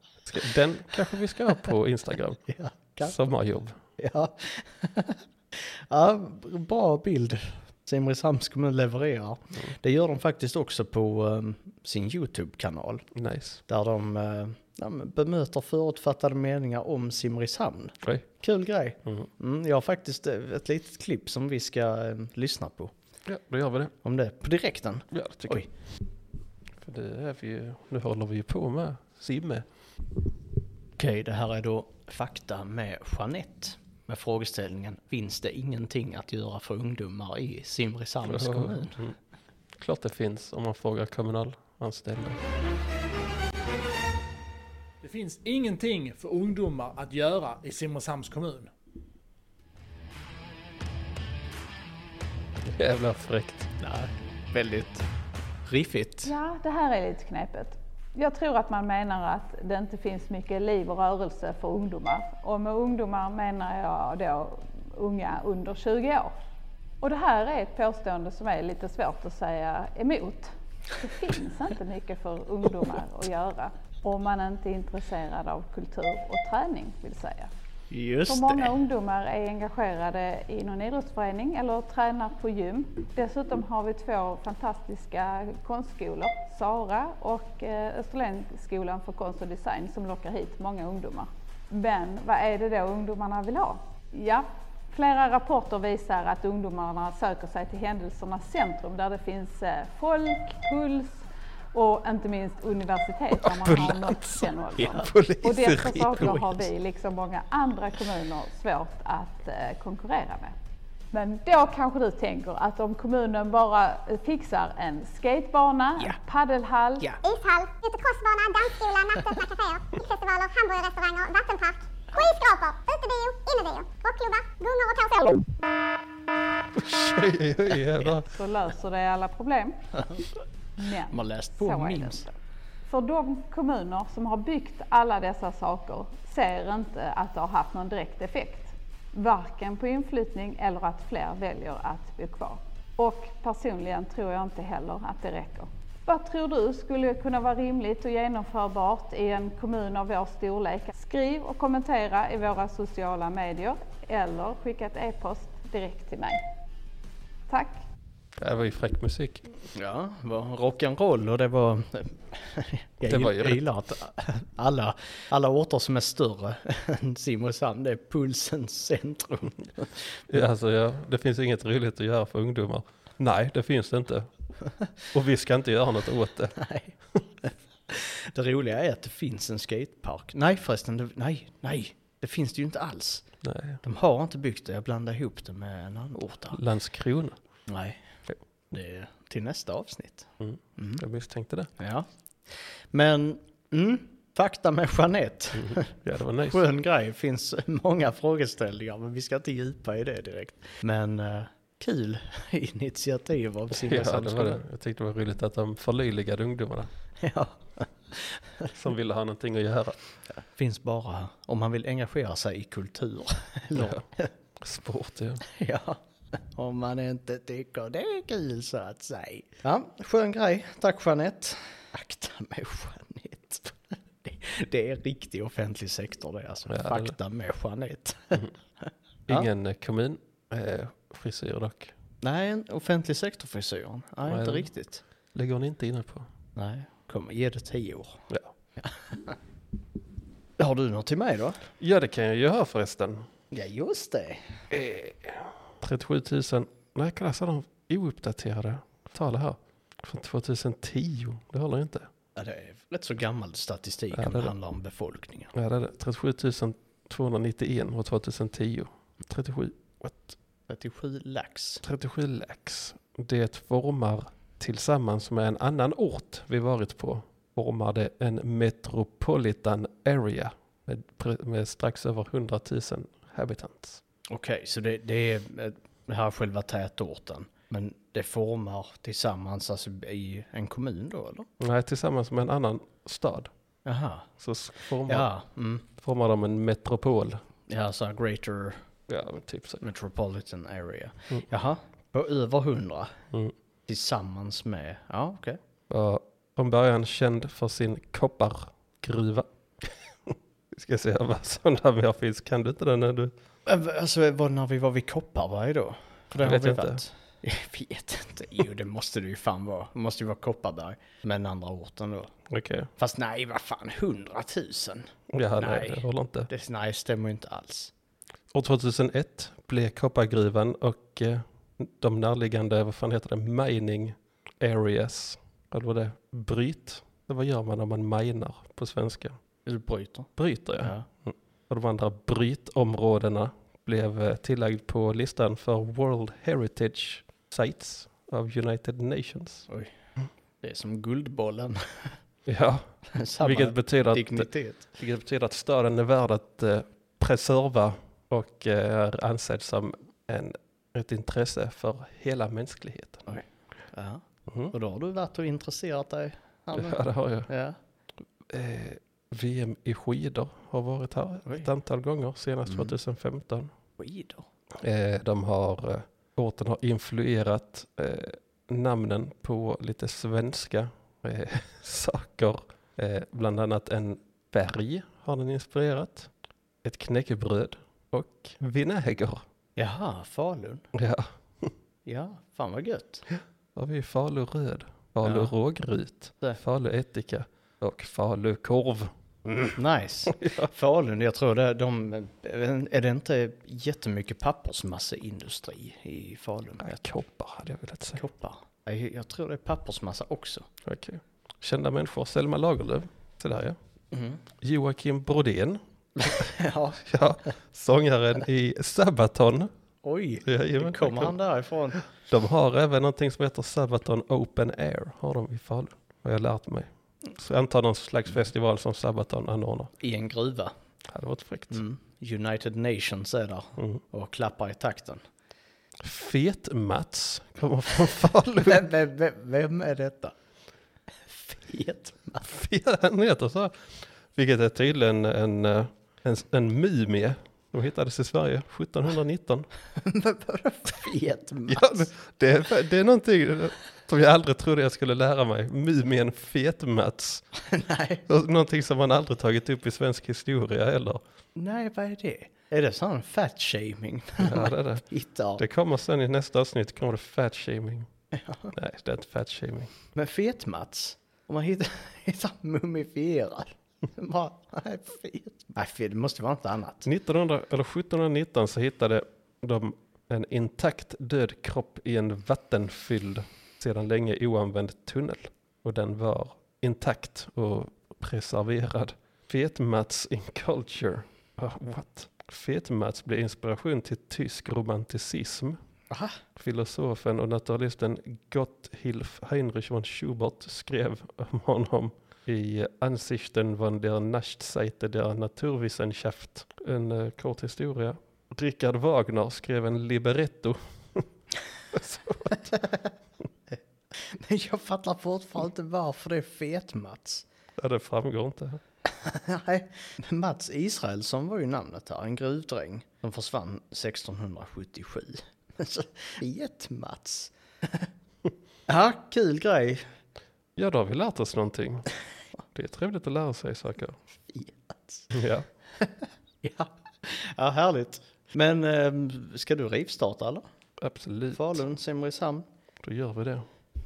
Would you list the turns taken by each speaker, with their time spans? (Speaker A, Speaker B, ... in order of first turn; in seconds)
Speaker A: 0.3-2.4, 3.0-3.8, 13.2-13.6, 23.3-23.9, 25.1-25.7, 26.8-29.7, 38.2-39.1, 39.8-42.4, 52.6-53.7, 103.4-106.6, 126.7-128.3, 158.4-159.4, 163.0-163.7, 170.3-174.3, 175.1-176.6, 183.4-183.8, 186.5-187.4, 190.4-191.7, 195.6-196.6, 203.7-206.9, 208.7-210.0, 213.8-214.1, 214.6-215.4, 226.7-227.2, 229.3-231.9, 234.2-234.7, 235.3-236.3, 241.8-243.3, 244.7-252.1, 254.1-254.5, 255.5-260.4, 261.8-274.0, 281.6-283.5, 284.4-285.3, 285.9-287.4, 289.1-289.8, 295.9-303.3, 306.4-307.0, 312.5-312.9, 315.3-316.5, 318.5-329.4, 330.4-339.7, 342.5-353.3, 354.5-354.7, 356.7-357.5, 358.5-363.7, 364.8-376.3, 376.8-379.4, 380.9-381.7, 383.3-389.7, 390.3-390.7, 396.8-398.2, 400.8-403.8, 404.6-409.7, 410.4-411.4, 412.2-419.9, 421.1-421.8, 426.0-428.9, 432.4-439.7, 441.7-447.4, 448.3-451.2, 454.4-455.1, 455.6-458.1, 458.7-459.9, 467.1-485.8, 486.6-501.3, 501.9-502.7, 507.8-508.8, 520.8-522.1, 522.7-524.2, 525.3-525.7, 531.0-531.8, 533.0-533.7
Speaker B: 2.5-3.2, 4.0-13.1, 13.7-22.9, 24.0-25.7, 31.0-39.0, 53.8-55.0, 55.7-56.3, 77.9-78.8, 131.1-132.2, 159.7-170.2, 176.6-183.2, 183.8-186.6, 187.7-188.0, 188.7-191.0, 191.8-204.6, 207.2-208.7, 210.4-214.3, 215.4-229.5, 232.2-235.0, 236.6-238.2, 238.8-239.4, 240.6-241.6, 243.5-244.5, 252.4-255.5, 260.7-261.8, 274.3-281.5, 283.9-284.3, 285.1-285.9, 287.7-288.8, 289.8-293.1, 293.9-295.6, 303.7-312.3, 313.0-317.9, 329.7-331.1, 340.6-342.1, 343.1-344.9, 353.3-357.8, 362.7-362.9, 364.0-364.4, 379.8-380.8, 382.1-383.2, 385.2-385.5, 389.8-397.0, 398.2-400.7, 404.1-404.4, 406.2-407.0, 410.0-412.0, 420.0-420.7, 421.7-425.2, 428.6-430.3, 431.3-432.4, 439.9-442.1, 447.6-448.2, 451.6-455.6, 458.3-458.7, 460.1-467.1, 486.1-486.4, 503.7-507.4, 509.1-518.1, 518.9-520.0, 524.5-525.3, 526.0-530.6, 531.5-532.6
Speaker C: 45.0-48.7
Speaker D: 56.2-66.4, 67.0-77.5, 78.3-110.5, 111.1-117.2, 128.2-129.8, 130.8-132.3, 132.9-156.4, 157.5-157.8
Speaker E: 117.2-125.5